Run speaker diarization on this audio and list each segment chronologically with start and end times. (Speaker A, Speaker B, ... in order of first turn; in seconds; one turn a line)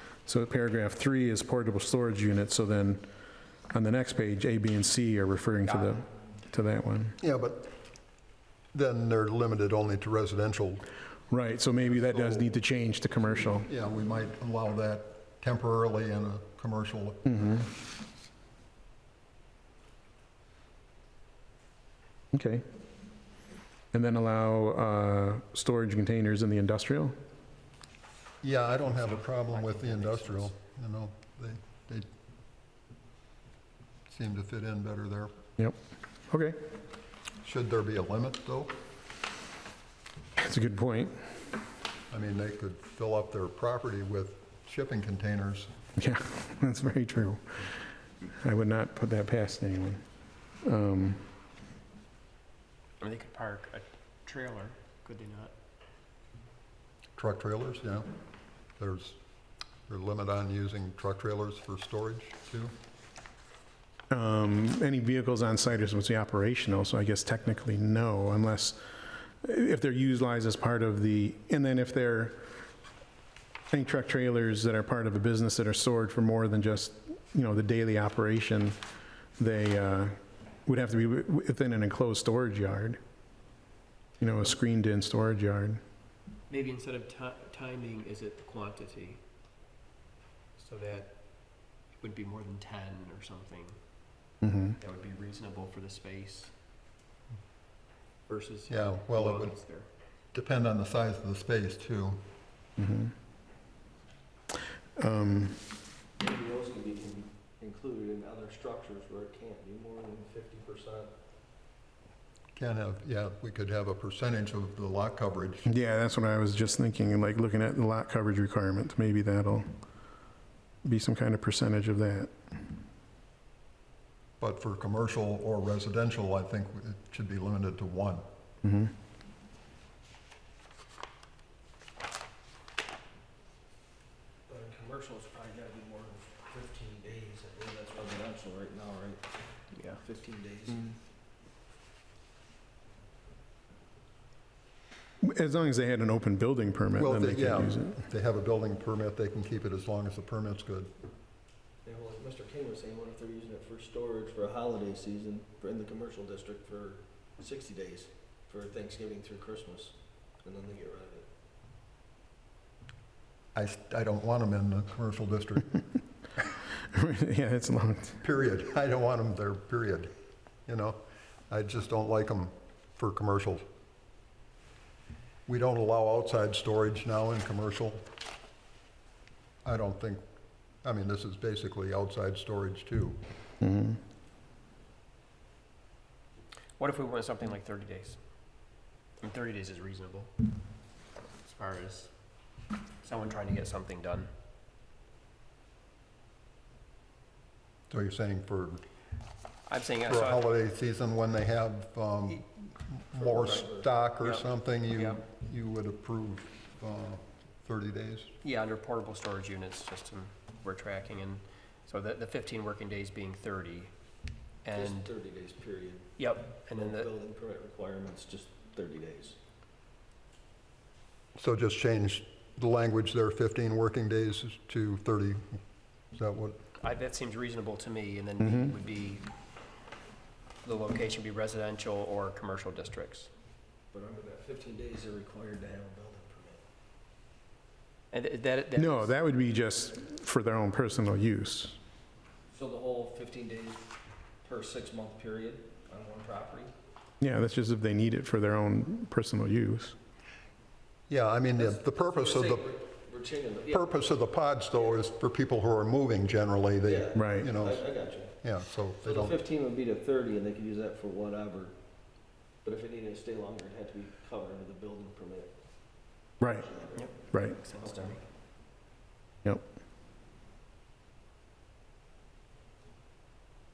Speaker A: 0.2-3.0
Speaker A: 3.7-7.2
Speaker B: 5.7-6.0
Speaker C: 7.2-7.7
Speaker C: 8.7-10.9
Speaker A: 11.3-13.7
Speaker C: 11.9-12.5
Speaker C: 13.6-17.6
Speaker A: 17.3-17.6
Speaker A: 22.3-22.6
Speaker A: 23.9-27.1
Speaker C: 28.4-32.0
Speaker B: 28.9-30.5
Speaker C: 34.1-35.3
Speaker A: 36.3-36.6
Speaker C: 37.4-38.7
Speaker A: 40.4-41.3
Speaker C: 42.1-45.7
Speaker A: 46.0-47.7
Speaker A: 48.4-50.0
Speaker A: 50.6-51.3
Speaker B: 53.0-55.5
Speaker C: 57.2-58.0
Speaker C: 58.8-59.2
Speaker C: 59.9-62.7
Speaker A: 64.1-68.8
Speaker A: 69.4-72.4
Speaker A: 73.7-78.8
Speaker A: 79.4-83.0
Speaker A: 84.2-85.8
Speaker B: 86.5-89.2
Speaker B: 90.6-93.8
Speaker A: 94.4-94.8
Speaker B: 94.8-96.5
Speaker B: 98.3-99.9
Speaker C: 98.7-99.6
Speaker C: 100.3-102.2
Speaker A: 102.8-103.1
Speaker A: 105.0-105.6
Speaker D: 106.2-111.1
Speaker C: 112.6-115.7
Speaker A: 115.7-119.7
Speaker A: 120.8-122.3
Speaker C: 124.4-128.2
Speaker A: 128.6-128.9
Speaker D: 134.5-139.2
Speaker B: 139.8-140.0
Speaker D: 139.9-141.0
Speaker A: 145.2-148.0
Speaker C: 147.0-150.9
Speaker D: 151.8-161.2
Speaker C: 163.6-165.8
Speaker A: 166.9-168.2
Speaker C: 168.2-170.1
Speaker C: 170.7-173.6
Speaker C: 175.5-178.1
Speaker C: 179.6-180.2
Speaker C: 180.8-183.2
Speaker A: 183.6-184.0
Speaker B: 186.8-188.2
Speaker B: 189.2-190.3
Speaker B: 191.4-192.1
Speaker B: 193.0-194.3
Speaker C: 197.9-198.8
Speaker B: 199.7-200.5
Speaker C: 200.1-208.3
Speaker D: 203.2-203.9
Speaker B: 204.2-205.2
Speaker B: 208.4-213.9
Speaker B: 214.6-215.1
Speaker D: 214.7-216.1
Speaker B: 216.2-217.1
Speaker D: 216.6-219.4
Speaker C: 221.4-225.6
Speaker C: 226.1-226.6
Speaker B: 226.8-229.3
Speaker A: 228.4-228.7
Speaker B: 230.6-233.3
Speaker D: 233.9-236.6
Speaker B: 238.1-239.2
Speaker A: 238.8-241.8
Speaker D: 242.5-243.9
Speaker D: 244.4-246.7
Speaker A: 247.2-250.0
Speaker C: 251.1-252.7
Speaker D: 251.6-254.2
Speaker C: 253.7-257.8
Speaker D: 254.8-255.0
Speaker D: 256.8-258.4
Speaker A: 257.1-257.5
Speaker C: 258.4-259.4
Speaker D: 259.0-261.8
Speaker D: 262.6-265.5
Speaker A: 266.4-266.7
Speaker D: 266.4-268.2
Speaker B: 266.9-268.2
Speaker A: 267.3-267.6